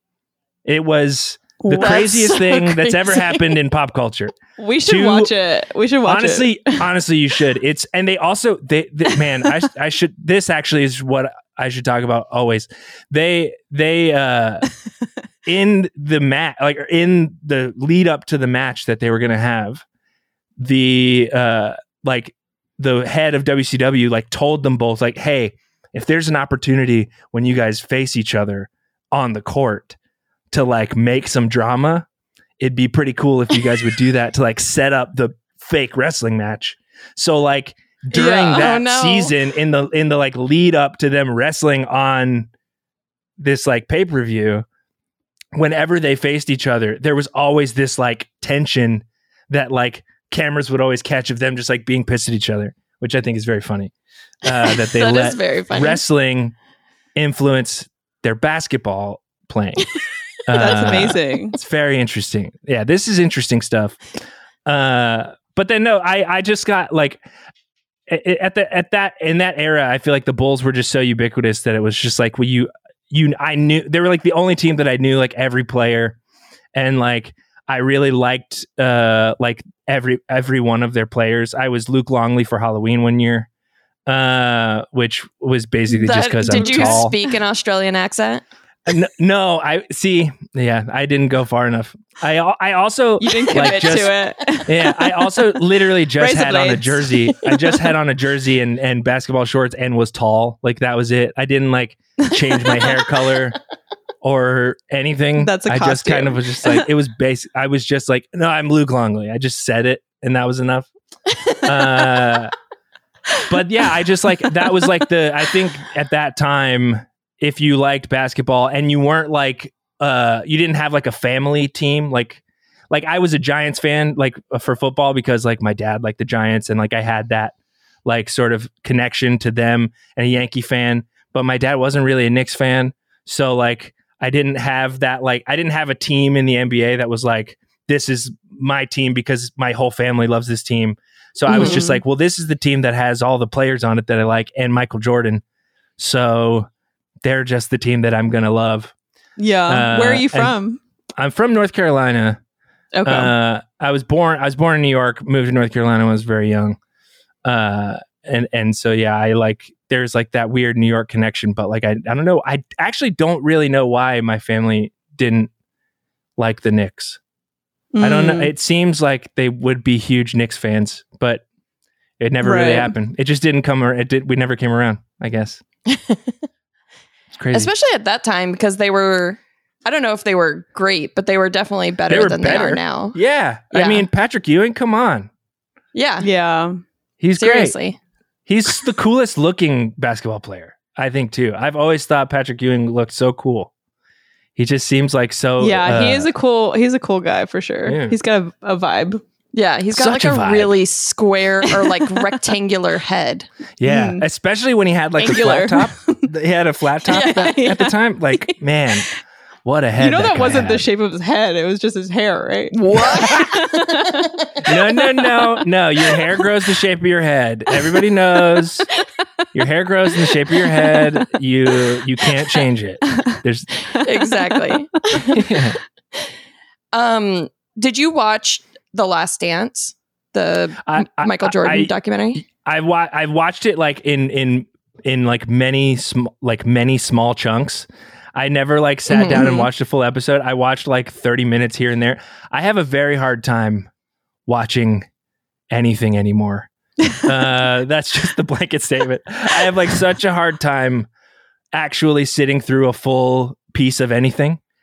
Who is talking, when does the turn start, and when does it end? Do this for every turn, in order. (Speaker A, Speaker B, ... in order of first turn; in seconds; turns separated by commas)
Speaker A: 0.7-5.3, Speaker B: 1.6-2.1, Speaker C: 1.7-3.4, Speaker B: 4.6-6.8, Speaker A: 6.0-14.7, Speaker A: 15.4-19.8, Speaker A: 20.6-30.0, Speaker A: 30.5-32.1, Speaker A: 32.6-42.5, Speaker C: 38.1-39.4, Speaker A: 43.4-44.7, Speaker A: 45.5-53.9, Speaker A: 54.4-56.6, Speaker C: 54.7-56.0, Speaker A: 57.1-59.9, Speaker A: 60.5-64.0, Speaker B: 60.5-61.6, Speaker A: 64.7-67.2, Speaker A: 68.1-76.2, Speaker A: 76.8-83.5, Speaker A: 84.1-87.1, Speaker C: 85.9-88.4, Speaker B: 86.6-87.1, Speaker A: 88.9-103.6, Speaker B: 93.2-95.7, Speaker B: 96.2-97.8, Speaker A: 104.2-110.9, Speaker B: 105.4-106.9, Speaker A: 111.6-112.5, Speaker A: 113.5-127.5, Speaker A: 128.1-145.4, Speaker B: 141.5-142.0, Speaker A: 146.0-146.7, Speaker A: 147.2-148.9, Speaker B: 149.4-150.8, Speaker A: 149.7-150.6, Speaker A: 151.2-152.4, Speaker B: 152.9-153.3, Speaker A: 153.1-156.8, Speaker A: 157.4-165.5, Speaker A: 166.4-167.2, Speaker B: 167.9-168.5, Speaker A: 168.0-171.4, Speaker A: 172.2-175.6, Speaker B: 172.4-172.9, Speaker C: 175.9-176.3, Speaker A: 177.3-177.7, Speaker C: 177.5-183.2, Speaker A: 182.1-185.3, Speaker C: 183.7-184.1, Speaker C: 185.9-186.3, Speaker B: 186.2-186.8, Speaker A: 187.2-187.8, Speaker C: 187.4-188.0, Speaker A: 188.5-193.7, Speaker A: 194.6-196.3, Speaker B: 195.6-199.2, Speaker A: 197.9-198.2, Speaker C: 199.5-203.5, Speaker A: 199.9-200.7, Speaker B: 201.7-202.5, Speaker A: 203.8-209.1, Speaker B: 203.8-204.2, Speaker B: 205.2-206.3, Speaker B: 207.1-209.0, Speaker A: 209.7-210.9, Speaker B: 210.0-214.7, Speaker C: 212.7-213.5, Speaker A: 213.0-213.6, Speaker A: 214.6-218.9, Speaker A: 219.5-223.7, Speaker C: 224.0-225.4, Speaker A: 225.3-225.8, Speaker C: 226.9-232.4, Speaker A: 230.8-243.9, Speaker C: 239.1-239.7, Speaker A: 244.5-245.1, Speaker A: 245.7-246.7, Speaker A: 247.2-251.1, Speaker A: 251.7-254.6